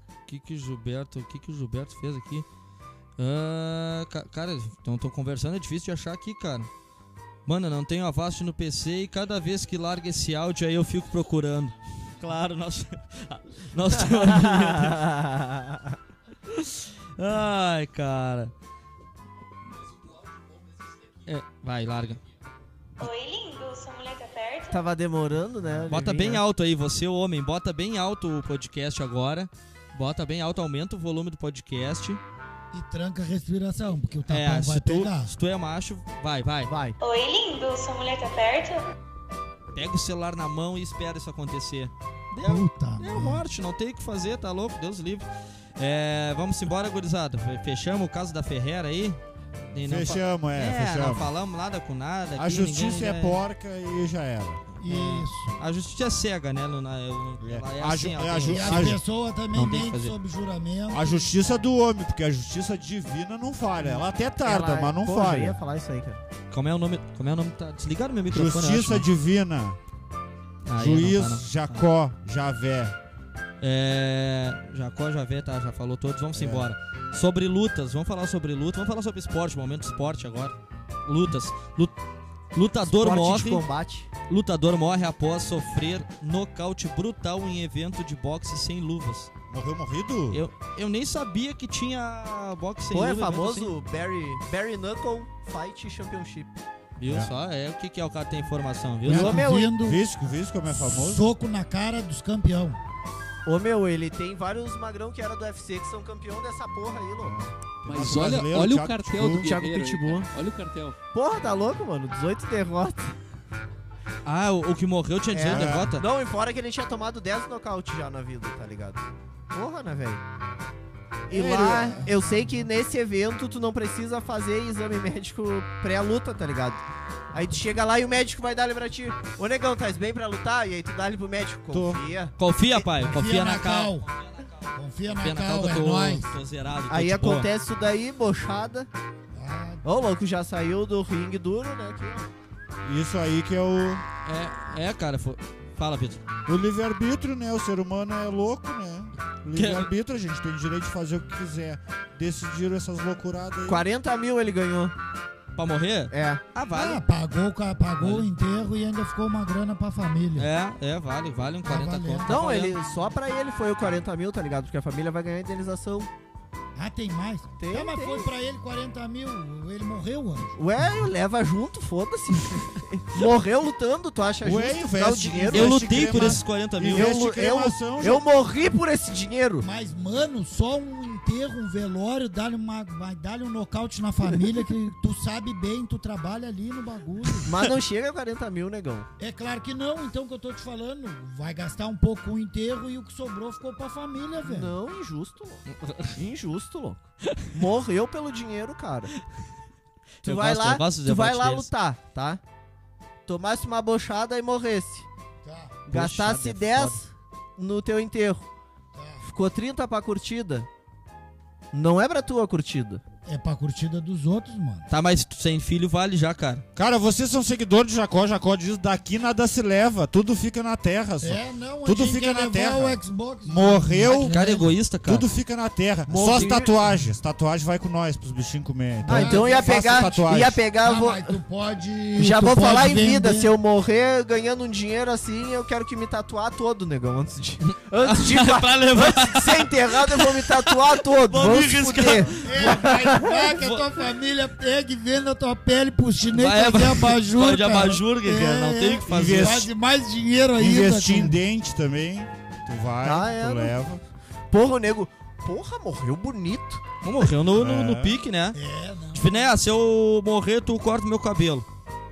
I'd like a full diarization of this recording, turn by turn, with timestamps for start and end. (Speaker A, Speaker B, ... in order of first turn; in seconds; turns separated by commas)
Speaker A: 0.3-2.5, Speaker A: 3.2-6.7, Speaker A: 7.5-15.1, Speaker B: 14.2-15.9, Speaker A: 16.5-18.5, Speaker A: 21.2-22.2, Speaker C: 23.0-24.9, Speaker B: 24.7-26.4, Speaker A: 25.9-32.2, Speaker D: 32.7-35.3, Speaker A: 34.3-36.7, Speaker B: 36.6-37.0, Speaker C: 37.0-38.8, Speaker A: 39.7-45.2, Speaker D: 42.4-43.4, Speaker A: 45.8-49.2, Speaker A: 49.7-53.4, Speaker E: 49.8-51.3, Speaker E: 52.4-54.6, Speaker D: 54.8-55.5, Speaker A: 54.8-59.0, Speaker E: 57.4-59.0, Speaker D: 58.4-61.3, Speaker A: 59.5-60.1, Speaker E: 60.9-65.6, Speaker B: 64.4-66.2, Speaker A: 66.5-69.0, Speaker E: 68.3-69.8, Speaker A: 70.7-71.8, Speaker E: 70.8-73.0, Speaker A: 73.6-81.9, Speaker E: 76.3-76.7, Speaker A: 82.5-83.7, Speaker B: 82.8-84.1, Speaker A: 84.3-89.3, Speaker E: 89.5-90.4, Speaker A: 90.3-93.7, Speaker B: 92.9-96.6, Speaker A: 97.0-99.4, Speaker E: 97.0-97.3, Speaker E: 99.1-101.2, Speaker B: 99.1-99.7, Speaker D: 99.1-100.0, Speaker D: 100.7-102.8, Speaker B: 103.4-107.5, Speaker E: 107.2-109.5, Speaker F: 107.8-111.0, Speaker B: 109.4-110.3, Speaker B: 111.1-113.1, Speaker A: 114.2-116.0, Speaker B: 115.3-120.2, Speaker E: 115.5-115.9, Speaker B: 121.3-132.3, Speaker A: 121.3-121.9, Speaker D: 122.0-122.6, Speaker E: 131.7-132.0, Speaker A: 132.4-134.5, Speaker D: 133.0-134.0, Speaker D: 134.8-136.3, Speaker A: 135.2-137.5, Speaker B: 136.9-138.9, Speaker D: 139.3-139.8, Speaker B: 139.8-142.3, Speaker E: 142.8-144.0, Speaker A: 144.2-146.2, Speaker E: 146.4-153.8, Speaker A: 149.5-149.9, Speaker B: 153.7-154.9, Speaker A: 155.5-157.0, Speaker B: 156.1-156.4, Speaker D: 156.7-160.5, Speaker A: 160.4-162.8, Speaker D: 161.6-162.4, Speaker B: 162.2-166.1, Speaker D: 166.8-170.6, Speaker B: 167.6-168.3, Speaker B: 170.6-176.4, Speaker E: 174.4-178.2, Speaker A: 175.5-177.2, Speaker B: 176.9-179.7, Speaker D: 179.6-187.5, Speaker B: 187.4-189.1, Speaker D: 189.2-194.7, Speaker B: 194.4-195.6, Speaker A: 195.7-196.1, Speaker B: 196.1-199.1, Speaker A: 200.2-201.7, Speaker B: 200.2-202.4, Speaker B: 203.2-205.1, Speaker D: 205.4-205.7, Speaker B: 205.9-208.4, Speaker A: 205.9-207.0, Speaker D: 208.9-209.2, Speaker B: 209.2-210.7, Speaker B: 211.7-213.0, Speaker D: 213.2-214.9, Speaker A: 214.9-216.6, Speaker E: 216.8-224.3, Speaker D: 221.2-224.7, Speaker A: 224.1-225.3, Speaker E: 225.0-230.6, Speaker B: 226.1-226.8, Speaker D: 229.0-230.1, Speaker B: 229.1-231.3, Speaker D: 230.8-233.5, Speaker B: 232.2-243.4, Speaker A: 237.9-242.9, Speaker D: 242.4-251.4, Speaker A: 243.6-243.8, Speaker A: 246.3-249.7, Speaker E: 249.1-249.7, Speaker E: 250.6-254.0, Speaker B: 253.0-253.7, Speaker B: 254.5-256.8, Speaker A: 257.0-258.6, Speaker E: 257.5-258.2, Speaker D: 258.5-259.5, Speaker A: 259.1-261.6